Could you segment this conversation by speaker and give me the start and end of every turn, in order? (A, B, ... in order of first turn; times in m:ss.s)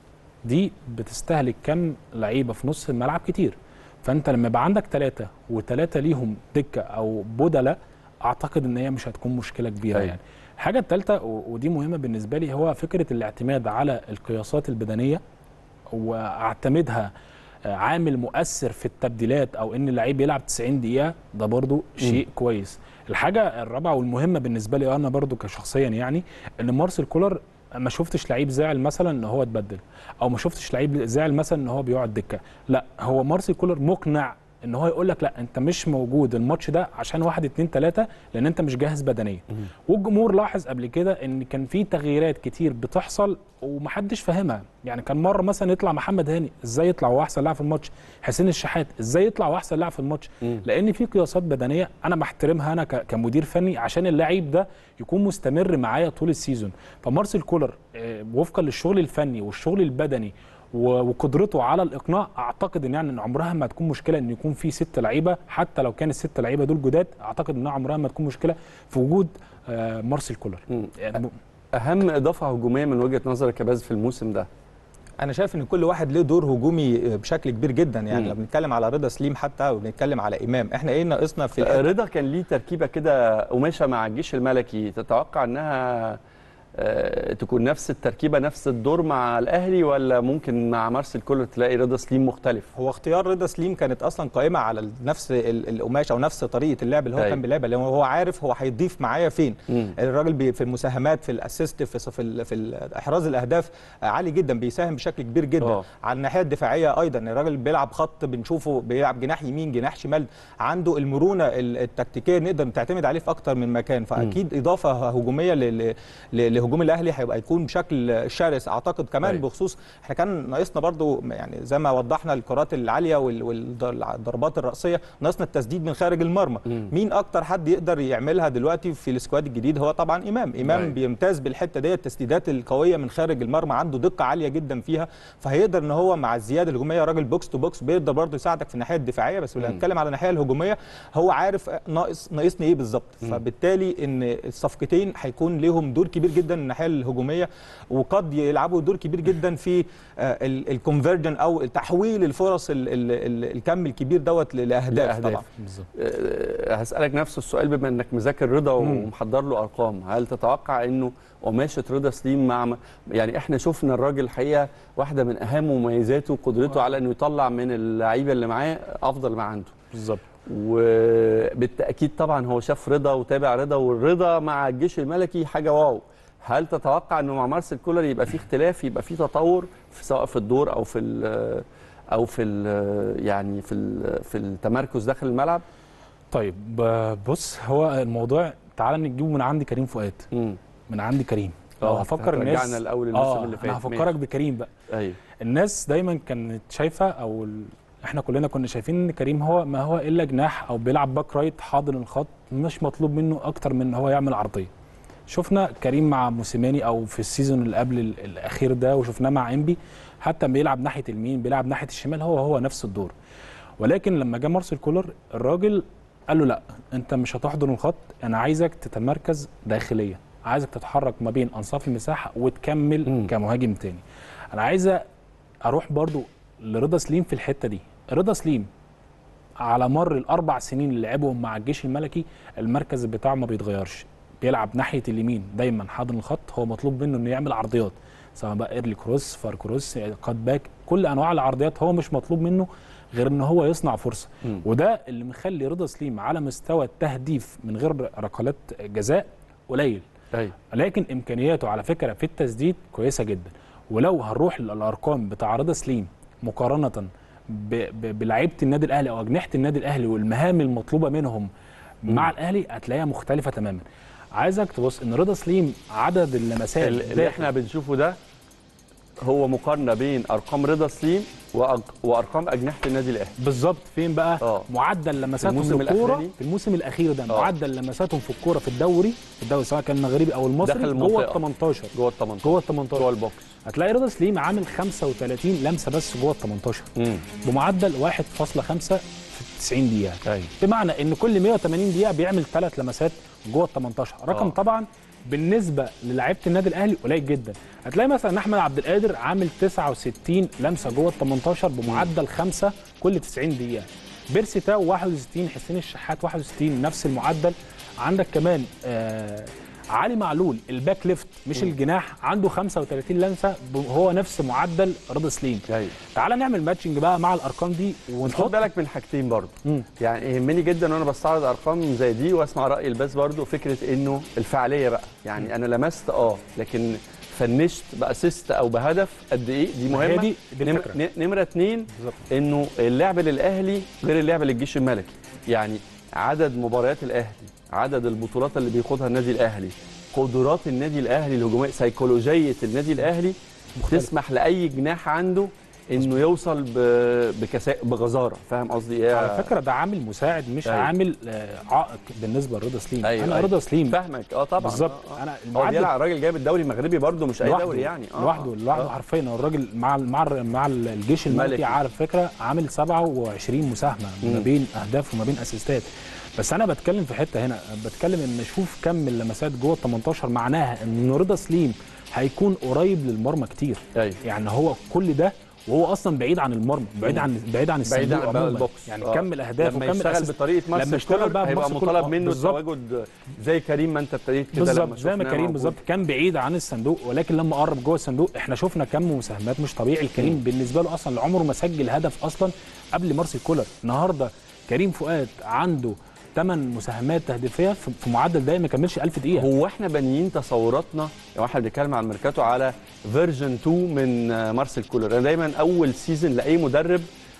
0:00.4-0:15.2 A
0:15.9-0:17.1 A
0:17.6-1:11.3 A
1:10.7-1:11.2 B
1:11.7-1:14.5 B
1:15.2-1:21.9 C
1:21.6-1:26.2 B
1:26.8-1:32.7 B
1:32.7-2:35.4 C
1:45.6-1:45.8 B
2:10.6-2:10.9 B
2:34.9-2:49.8 B
2:35.6-2:35.9 A
2:38.8-2:39.1 A
2:49.9-2:50.2 A
2:50.4-3:05.6 B
3:06.3-3:10.3 A
3:10.3-3:10.6 B
3:10.9-3:14.7 A
3:11.8-3:14.1 B
3:14.9-3:15.2 B
3:15.4-3:24.7 A
3:25.3-3:33.1 A
3:33.8-3:45.0 A
3:43.0-3:43.3 B
3:45.6-3:48.7 A
3:49.6-4:10.0 A
4:10.7-4:21.5 A
4:22.0-4:23.8 A
4:24.3-4:27.5 A
4:26.8-4:28.2 B
4:29.2-4:33.3 B
4:33.4-4:43.1 A
4:34.4-4:34.7 B
4:35.4-4:36.3 B
4:40.6-4:41.4 B
4:41.9-4:43.5 B
4:43.6-4:46.9 A
4:47.0-4:47.2 B
4:47.4-5:18.7 A
4:50.2-4:50.5 B
5:15.7-5:15.9 B
5:18.2-5:49.5 B
5:29.9-5:31.0 A
5:43.8-5:44.1 A
5:49.1-5:54.0 A
5:53.0-5:58.9 B
5:54.6-5:55.9 A
5:57.4-6:22.6 A
6:01.3-6:01.7 B
6:17.8-6:25.8 B
6:24.5-6:39.5 A
6:39.3-6:47.1 B